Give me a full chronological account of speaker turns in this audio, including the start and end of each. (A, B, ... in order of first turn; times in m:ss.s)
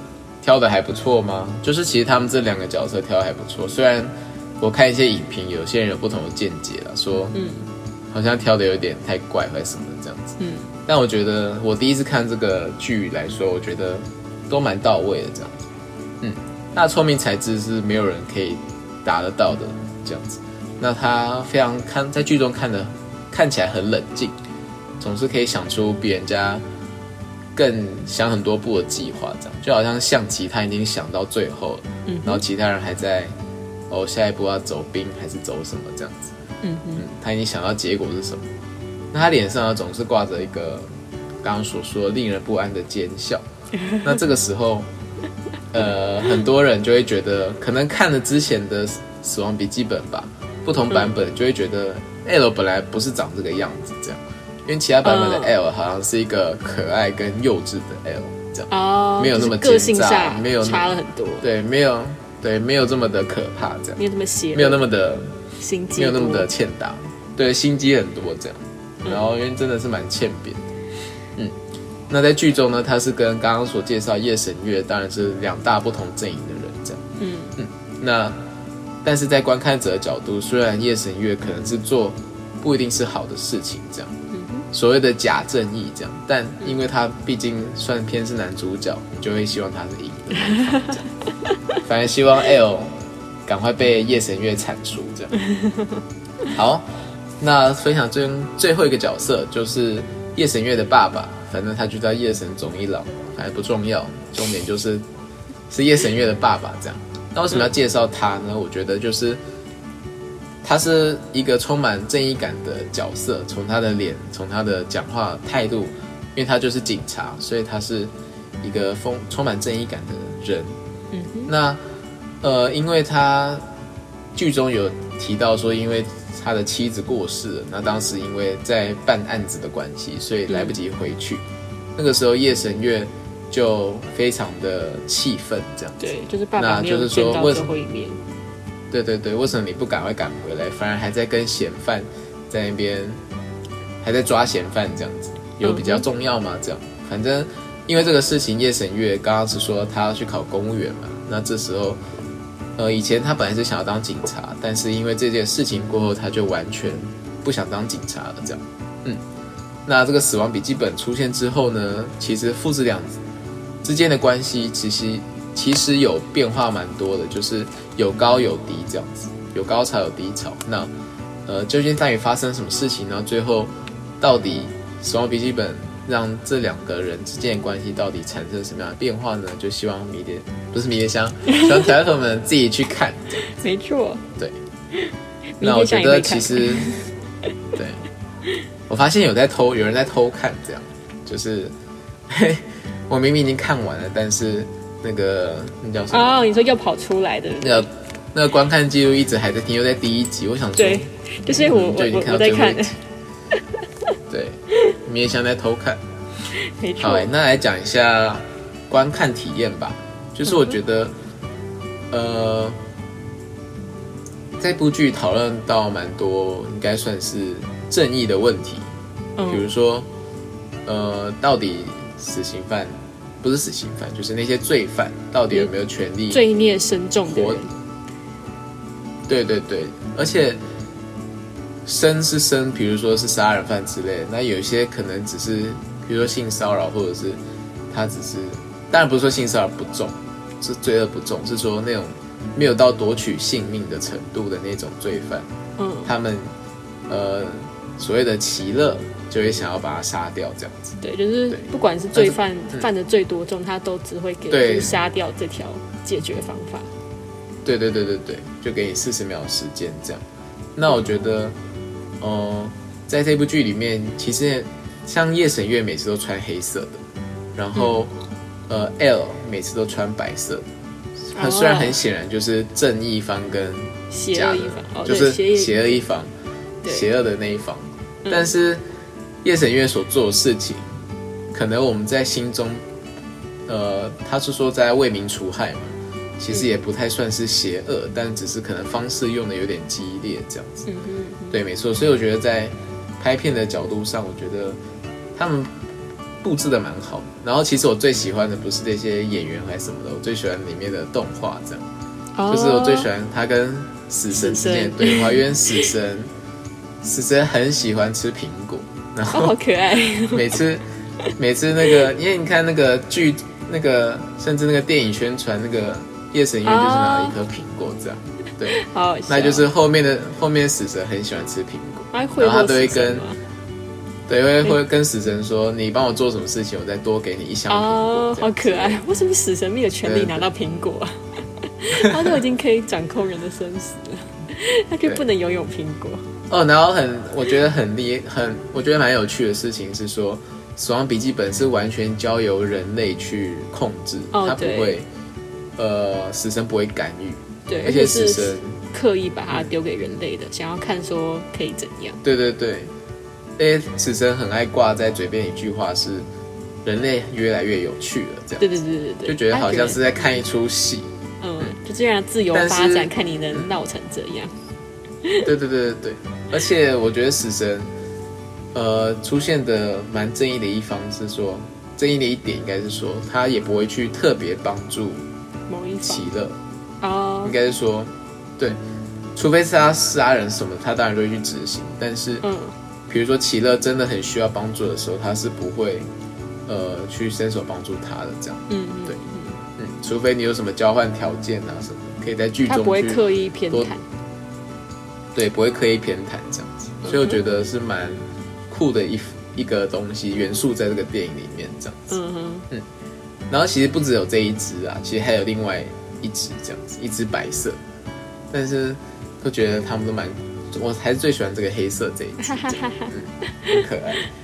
0:00.4-0:07.4 A
0:07.3-0:07.7 B
0:08.1-0:15.6 A
0:10.4-0:10.7 B
0:16.2-0:24.4 A
0:25.0-0:26.6 A
0:27.5-0:33.3 A
0:32.0-0:32.4 B
0:33.9-0:36.3 A
0:36.6-0:37.0 B
0:37.0-0:38.5 A
0:39.1-0:40.9 A
0:41.4-0:43.4 A
0:43.7-0:44.2 B
0:44.0-0:44.9 A
0:45.7-1:04.0 A
0:50.9-0:51.2 B
0:55.0-0:55.5 B
0:58.7-1:01.4 B
1:04.0-1:04.9 B
1:04.5-1:05.4 A
1:05.6-1:06.5 B
1:05.9-1:10.7 A
1:12.1-1:17.0 A
1:17.2-1:17.6 B
1:17.6-1:18.4 A
1:19.0-1:24.1 A
1:24.3-1:24.6 B
1:24.7-1:31.0 A
1:30.5-1:30.9 B
1:31.8-1:32.9 A
1:33.5-1:35.3 A
1:35.5-1:36.0 B
1:36.4-1:36.8 A
1:37.4-1:45.0 A
1:45.7-1:49.4 A
1:50.6-2:00.8 A
2:01.1-2:01.5 B
2:01.5-2:01.8 A
2:02.4-2:03.6 A
2:04.3-2:11.4 A
2:10.5-2:10.8 B
2:12.0-2:17.7 A
2:16.0-2:18.2 B
2:18.9-2:23.2 A
2:24.0-2:32.0 A
2:25.6-2:26.0 B
2:32.8-2:39.2 A
2:39.8-2:43.2 A
2:43.8-2:50.9 A
2:51.4-3:03.5 A
3:03.5-3:04.2 B
3:04.9-3:07.1 B
3:05.6-3:06.9 A
3:07.8-3:08.0 A
3:08.9-3:11.7 A
3:12.3-3:16.4 A
3:16.1-3:17.8 B
3:17.6-3:23.0 A
3:20.8-3:23.0 B
3:24.3-3:26.0 A
3:26.5-3:27.3 B
3:27.0-3:31.1 A
3:32.1-3:32.8 A
3:34.6-3:38.9 A
3:39.4-3:39.7 B
3:39.4-3:40.1 A
3:40.8-3:46.4 A
3:46.3-3:47.7 B
3:47.2-3:47.6 A
3:49.3-3:50.6 A
3:51.8-4:05.5 A
4:05.8-4:06.1 B
4:06.0-4:06.5 A
4:07.1-4:11.0 A
4:11.0-4:16.9 B
4:11.5-4:12.9 A
4:14.5-4:14.9 A
4:17.6-4:20.2 A
4:20.8-4:21.6 A
4:22.2-4:27.0 A
4:27.6-4:28.1 A
4:27.7-4:28.0 B
4:28.7-4:30.6 A
4:31.2-4:36.3 A
4:31.3-4:32.0 B
4:34.1-4:36.0 B
4:36.8-4:38.8 A
4:38.2-4:38.5 B
4:39.4-4:40.9 A
4:41.5-4:42.8 A
4:43.7-4:50.8 A
4:50.8-4:51.6 B
4:51.5-4:54.8 A
4:55.3-4:55.7 A
4:56.4-5:01.8 A
5:02.4-5:03.1 B
5:02.4-5:06.3 A
5:04.3-5:05.9 B
5:07.0-5:09.6 A
5:09.3-5:10.5 B
5:10.2-5:10.8 A
5:11.4-5:23.2 A
5:16.6-5:17.4 B
5:18.7-5:19.6 B
5:22.1-5:23.4 B
5:24.3-5:29.0 A
5:27.7-5:36.2 B
5:30.0-5:30.4 A
5:32.0-5:32.3 A
5:36.5-5:45.0 A
5:44.3-5:45.0 B
5:45.8-5:48.7 A
5:47.7-5:52.2 B
5:52.2-5:52.9 A
5:53.6-5:56.3 A
5:56.8-5:58.6 A
5:58.6-6:00.4 B
5:59.2-6:01.1 A
6:01.4-6:04.6 B
6:02.5-6:03.7 A
6:05.4-6:07.9 A
6:08.7-6:15.2 A
6:15.7-6:16.3 B
6:16.0-6:16.6 A
6:17.0-6:17.5 B
6:17.4-6:18.8 A
6:19.3-6:22.4 A
6:22.4-6:22.7 B
6:23.1-6:26.1 A
6:26.7-6:29.1 A
6:28.7-6:29.6 B
6:29.8-6:33.9 A
6:32.7-6:34.0 B
6:35.3-6:42.2 A
6:37.0-6:37.4 B
6:42.1-6:42.7 B
6:43.5-6:47.8 A
6:48.5-6:54.2 A
6:52.4-6:53.1 B